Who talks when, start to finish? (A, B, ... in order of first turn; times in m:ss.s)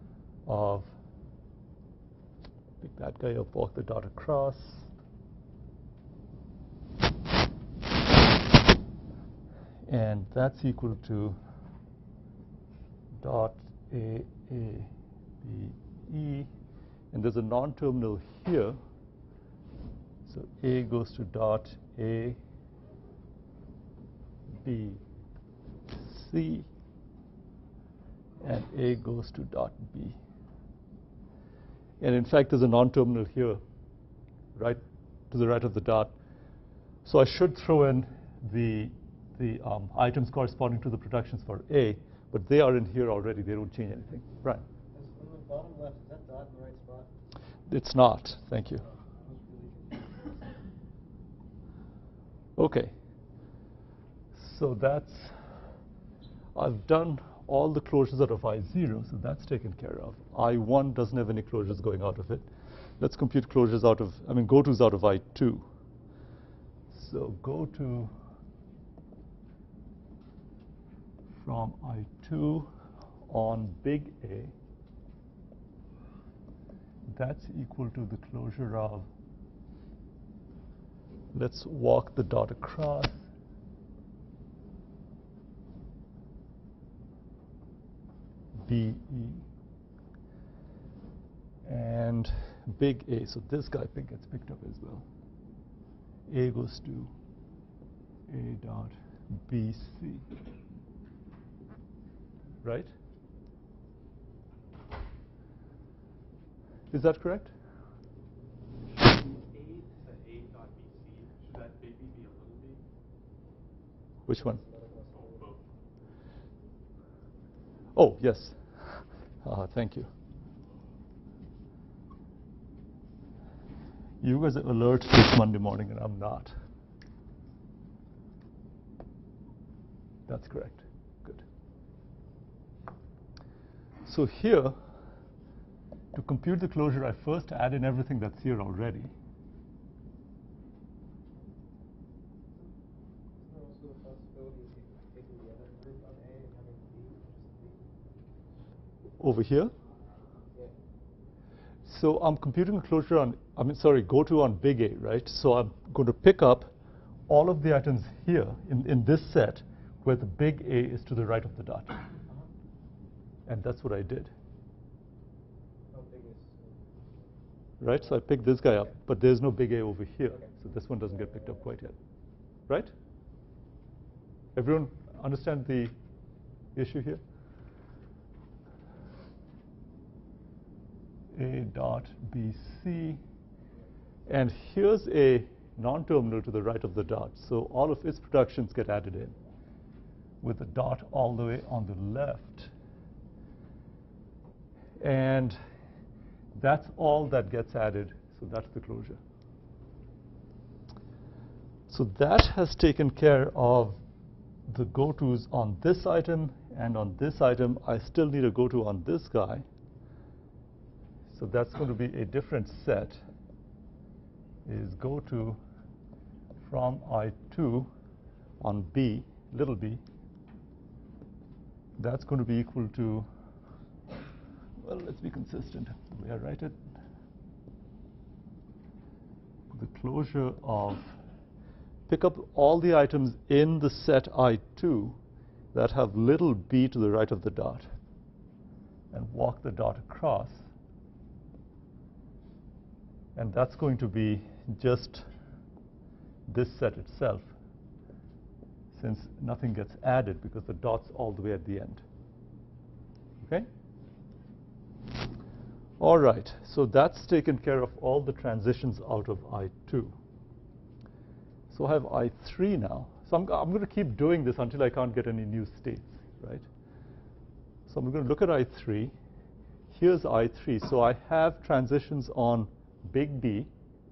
0:00.5-0:00.9 A
0:02.8-0:04.9 A
0:09.9-0:11.4 A
0:13.2-0:14.9 A
0:15.4-0:16.5 A
0:17.1-0:18.8 A
0:20.3-0:22.4 A
0:24.6-0:25.0 A
0:25.9-0:26.7 A
0:28.4-0:30.2 A
0:32.0-0:33.6 A
0:34.6-0:34.8 A
0:35.3-0:36.1 A
0:37.1-0:44.6 A
0:44.9-0:47.1 B
0:47.7-0:48.8 A
0:49.1-0:50.5 B
0:52.6-0:52.9 A
0:54.3-0:55.3 A
0:56.6-1:02.5 A
1:03.0-1:05.6 A
1:06.9-1:08.1 A
1:11.4-1:12.7 A
1:13.3-1:14.5 A
1:17.1-1:19.1 A
1:21.3-1:23.2 A
1:28.6-1:29.4 A
1:31.6-1:35.1 A
1:36.3-1:37.1 A
1:38.3-1:40.3 A
1:42.6-1:42.9 A
1:46.9-1:47.5 A
1:48.9-1:52.8 C
1:54.3-1:54.6 A
1:54.3-1:55.5 B
1:55.1-1:55.6 C
1:58.0-2:00.1 A
2:04.2-2:06.5 A
2:10.3-2:11.4 A
2:14.0-2:14.8 A
2:16.1-2:19.1 A
2:23.4-2:27.9 B
2:29.2-2:29.7 A
2:31.9-2:36.7 A
2:37.3-2:42.0 A
2:43.5-2:44.3 A
2:45.9-2:47.3 B
2:47.8-2:52.0 A
2:50.3-2:51.6 B
2:54.6-2:55.9 A
2:56.8-2:57.2 A
3:01.3-3:03.2 A
3:04.3-3:09.4 A
3:10.4-3:12.7 A
3:15.0-3:15.6 A
3:16.6-3:19.2 A
3:21.9-3:24.0 A
3:24.7-3:29.6 A
3:31.3-3:33.2 A
3:34.7-3:35.6 A
3:36.6-3:37.9 A
3:38.6-3:40.0 A
3:42.0-3:43.3 A
3:44.8-3:46.8 A
3:49.7-3:51.1 A
3:52.1-3:55.2 A
3:55.7-3:57.9 A
3:59.1-4:00.6 A
4:03.4-4:05.3 A
4:06.5-4:07.5 A
4:08.9-4:12.0 A
4:13.4-4:13.7 A
4:16.0-4:20.2 A
4:21.7-4:26.6 A
4:27.9-4:29.1 A
4:29.9-4:33.7 A